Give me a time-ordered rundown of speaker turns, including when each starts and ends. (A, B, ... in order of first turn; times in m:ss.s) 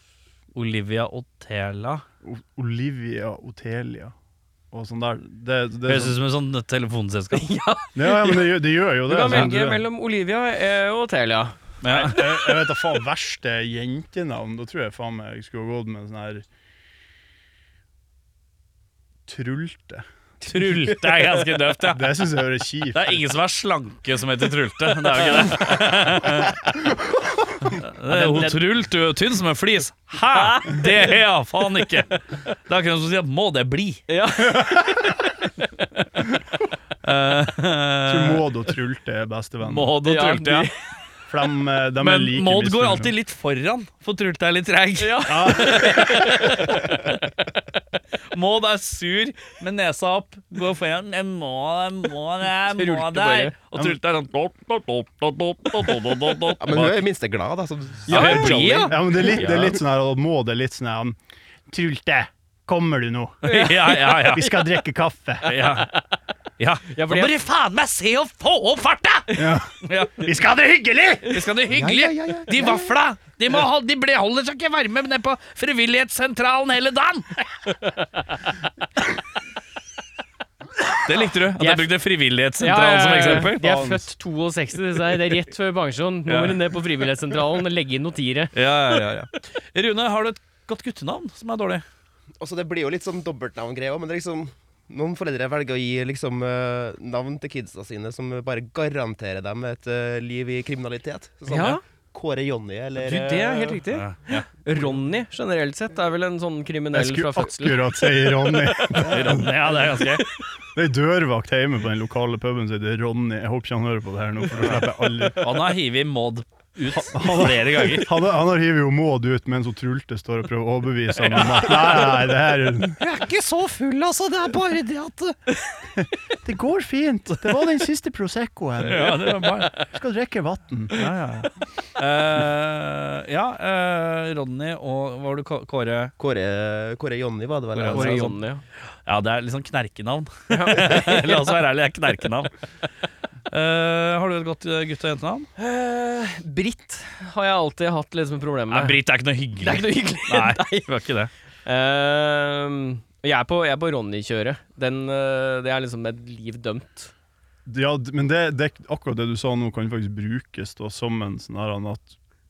0:00.5-0:02.0 A
0:02.2-0:04.1 B
0:04.7-0:06.2 B
0:05.8-0:07.5 A
0:07.3-0:12.4 C
0:07.9-0:09.8 B
0:11.8-0:12.3 A
0:11.9-0:16.4 B
0:19.2-0:20.0 B
0:20.4-0:22.1 A
0:20.8-0:21.3 C
0:21.9-0:23.2 B
0:22.9-0:26.6 A
0:25.1-0:25.6 C
0:26.7-0:27.7 B
0:27.8-0:34.0 A
0:28.1-0:28.6 C
0:30.3-0:31.0 C
0:34.1-0:35.7 C
0:37.0-0:38.4 A
0:38.1-0:39.9 B
0:39.6-0:40.7 A
0:40.0-0:40.8 C
0:41.3-0:43.1 B
0:42.0-0:47.2 A
0:45.0-0:46.8 C
0:45.3-0:46.4 B
0:48.3-0:57.0 A
0:52.7-0:53.5 C
0:56.6-0:58.5 D
0:58.1-0:59.8 A
0:58.1-0:59.4 C
0:58.2-1:05.6 B
1:03.4-1:04.6 A
1:03.5-1:03.9 C
1:05.4-1:06.0 A
1:05.5-1:06.0 C
1:06.6-1:10.3 A
1:06.9-1:07.3 C
1:09.3-1:09.6 C
1:09.4-1:11.4 B
1:11.2-1:17.4 A
1:11.7-1:12.9 D
1:21.0-1:23.6 A
1:21.6-1:21.9 C
1:22.6-1:28.7 C
1:23.5-1:24.1 B
1:26.3-1:26.6 A
1:28.5-1:31.8 A
1:32.4-1:43.8 D
1:41.5-1:41.8 C
1:43.0-1:49.4 C
1:43.9-1:44.4 A
1:46.9-1:49.7 B
1:49.0-1:50.3 A
1:50.7-1:55.6 B
1:55.4-1:58.1 A
1:56.9-2:03.0 B
2:01.2-2:02.1 A
2:03.0-2:05.4 A
2:06.0-2:11.1 B
2:08.8-2:09.9 A
2:10.9-2:16.1 A
2:16.2-2:18.2 D
2:17.7-2:18.4 A
2:17.9-2:18.6 C
2:19.0-2:22.5 A
2:20.5-2:21.5 C
2:23.5-2:25.5 A
2:25.6-2:29.0 C
2:28.7-2:31.3 A
2:29.6-2:30.9 C
2:31.6-2:37.1 C
2:37.6-2:42.1 B